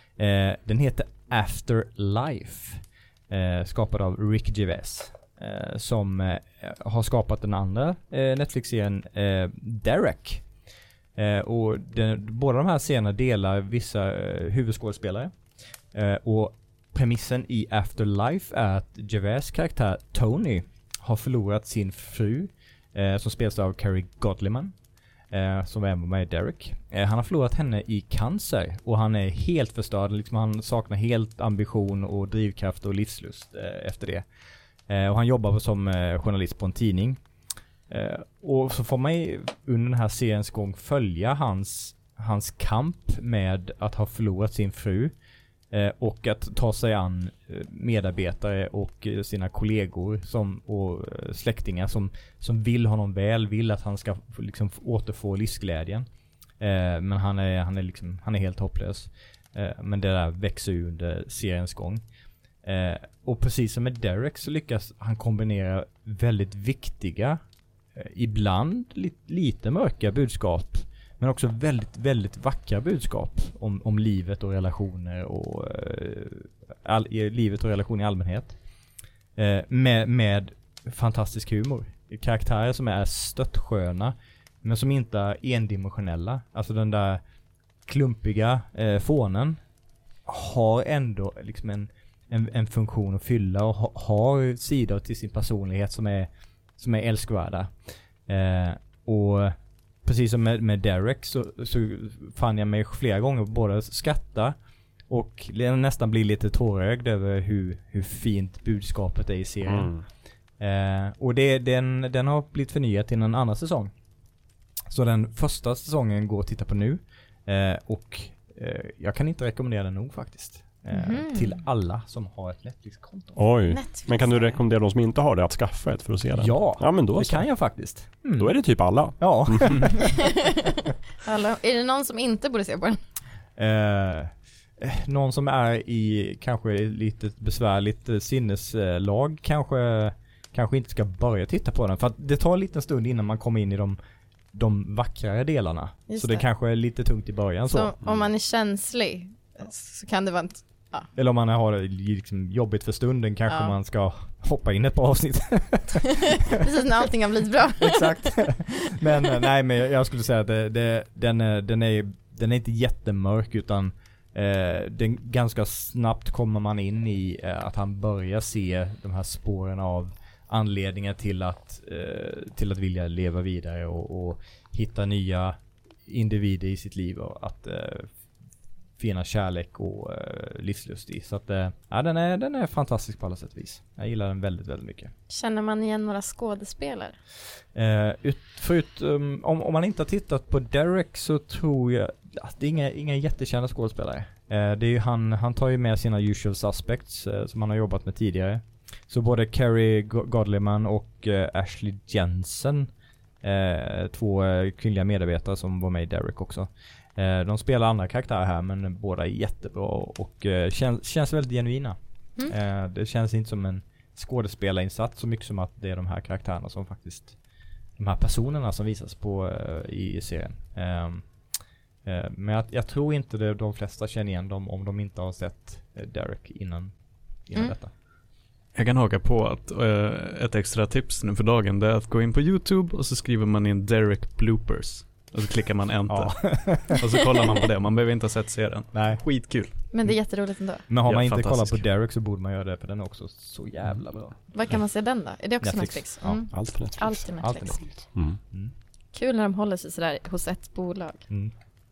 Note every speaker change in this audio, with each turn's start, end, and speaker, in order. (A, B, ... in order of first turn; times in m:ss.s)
0:00.2-0:10.6 A
0:11.2-0:34.3 A
0:34.9-0:37.2 A
0:37.9-0:45.2 A
0:45.7-0:56.1 A
0:56.6-1:07.4 A
1:07.9-1:18.7 A
1:19.4-1:27.2 A
1:27.8-1:29.6 A
1:30.2-1:53.9 A
1:49.6-1:50.1 B
1:54.9-2:03.5 A
2:00.9-2:01.5 C
2:03.4-2:10.0 B
2:03.7-2:04.6 C
2:06.4-2:10.3 A
2:11.2-2:13.0 C
2:13.6-2:24.0 A
2:24.5-2:28.0 A
2:26.1-2:26.4 C
2:27.7-2:31.1 C
2:31.1-2:36.2 A
2:33.5-2:33.7 C
2:36.6-2:38.7 C
2:37.9-2:58.4 A
2:59.0-3:05.1 A
3:05.3-3:07.2 C
3:07.7-3:47.9 A
3:48.7-4:00.1 D
3:56.1-3:57.0 A
3:58.9-4:05.0 A
3:59.9-4:00.9 C
4:00.9-4:01.9 D
4:04.5-4:07.8 C
4:05.6-4:08.7 A
4:06.5-4:08.4 B
4:09.1-4:11.7 C
4:11.3-4:11.5 A